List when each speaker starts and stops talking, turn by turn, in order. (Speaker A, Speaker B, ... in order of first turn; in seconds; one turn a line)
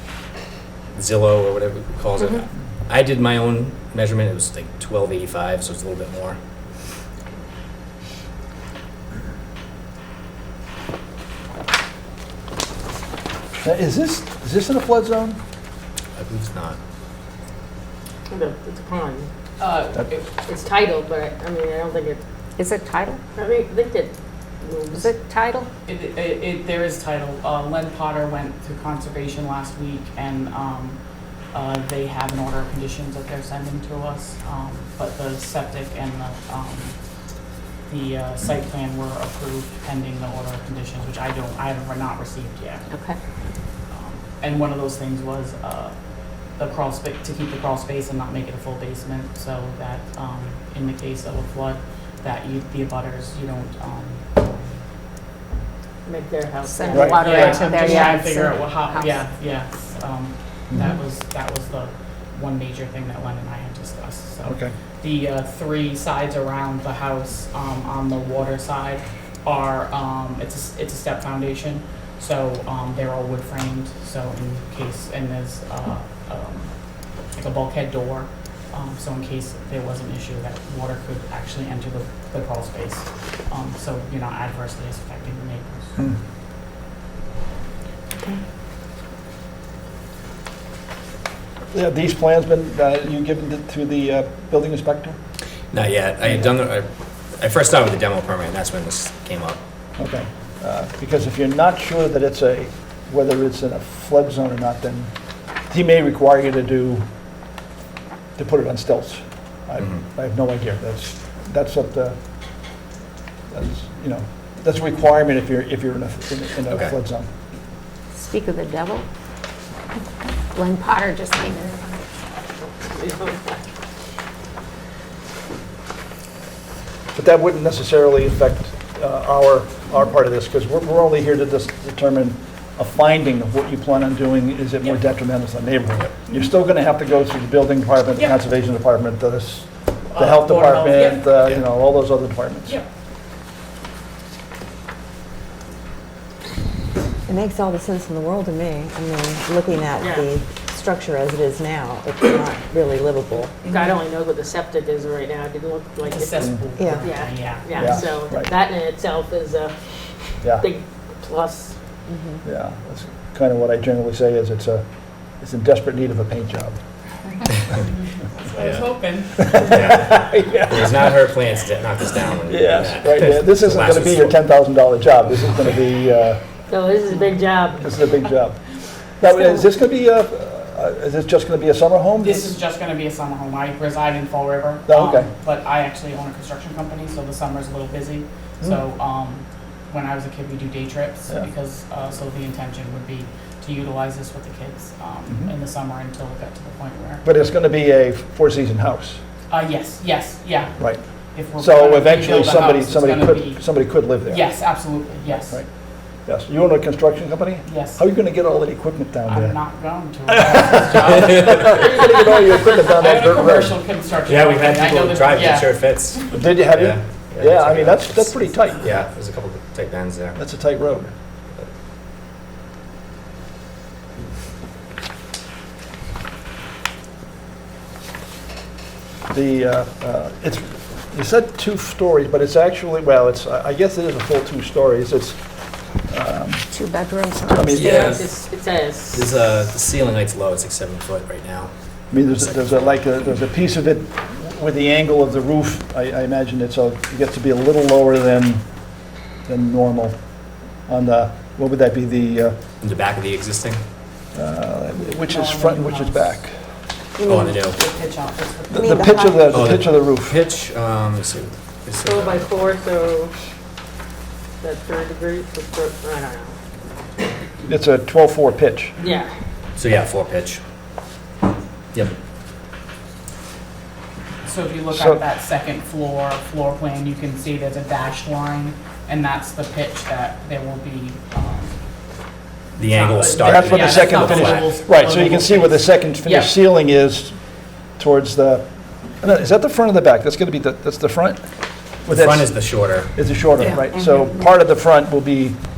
Speaker A: 0.9-6.4
Speaker B: 13.6-15.4
Speaker A: 16.2-16.8
Speaker C: 18.3-19.3
Speaker D: 19.6-20.3
Speaker C: 20.5-22.2
Speaker E: 22.6-23.2
Speaker C: 23.4-25.1
Speaker E: 24.9-25.7
Speaker D: 25.9-31.0
Speaker D: 31.5-37.0
Speaker D: 37.9-42.9
Speaker D: 43.9-46.0
Speaker D: 46.5-54.5
Speaker C: 56.0-57.8
Speaker E: 56.6-59.2
Speaker B: 56.9-57.2
Speaker D: 57.1-86.0
Speaker B: 64.4-64.7
Speaker B: 91.7-95.2
Speaker A: 95.7-99.6
Speaker B: 100.0-107.0
Speaker B: 108.3-112.2
Speaker B: 113.5-117.3
Speaker E: 118.2-119.0
Speaker E: 120.5-121.8
Speaker C: 122.8-123.6
Speaker B: 127.1-142.8
Speaker D: 140.1-141.2
Speaker F: 147.3-153.6
Speaker C: 150.0-150.3
Speaker C: 153.7-159.7
Speaker D: 156.0-158.2
Speaker F: 156.7-157.2
Speaker B: 157.8-158.5
Speaker C: 160.6-161.8
Speaker F: 162.1-162.4
Speaker B: 162.4-166.8
Speaker D: 168.3-169.6
Speaker A: 168.6-168.9
Speaker A: 169.4-174.4
Speaker B: 169.4-171.1
Speaker B: 172.5-176.5
Speaker C: 176.7-177.8
Speaker B: 177.8-182.5
Speaker D: 182.2-197.2
Speaker B: 184.9-185.3
Speaker B: 197.2-199.2
Speaker D: 199.5-205.6
Speaker B: 200.8-204.9
Speaker B: 206.2-209.7
Speaker D: 207.7-208.0
Speaker D: 209.2-216.4
Speaker B: 210.3-213.8
Speaker A: 214.3-220.4
Speaker B: 216.3-218.9
Speaker B: 220.3-221.1
Speaker B: 229.3-235.4
Speaker B: 236.0-236.7
Speaker E: 236.7-238.0
Speaker B: 237.5-238.2
Speaker A: 237.8-238.3
Speaker C: 237.8-239.3
Speaker A: 239.1-243.0
Speaker B: 242.1-248.7
Speaker B: 249.4-250.2
Speaker B: 250.9-252.6
Speaker A: 252.8-253.8
Speaker B: 254.3-256.6
Speaker D: 255.0-256.4
Speaker F: 257.2-257.7
Speaker A: 257.2-257.8
Speaker D: 257.7-259.3
Speaker B: 258.7-260.4
Speaker F: 258.7-259.8
Speaker A: 259.5-262.6
Speaker C: 262.0-263.3
Speaker C: 264.6-266.6
Speaker B: 267.7-268.9
Speaker C: 269.0-269.3
Speaker A: 269.8-270.6
Speaker D: 274.4-281.8
Speaker B: 274.9-275.2
Speaker D: 282.7-286.6
Speaker A: 282.8-284.7
Speaker B: 283.4-287.4
Speaker B: 288.0-288.7
Speaker B: 289.2-291.4
Speaker B: 292.1-295.6
Speaker A: 292.1-293.2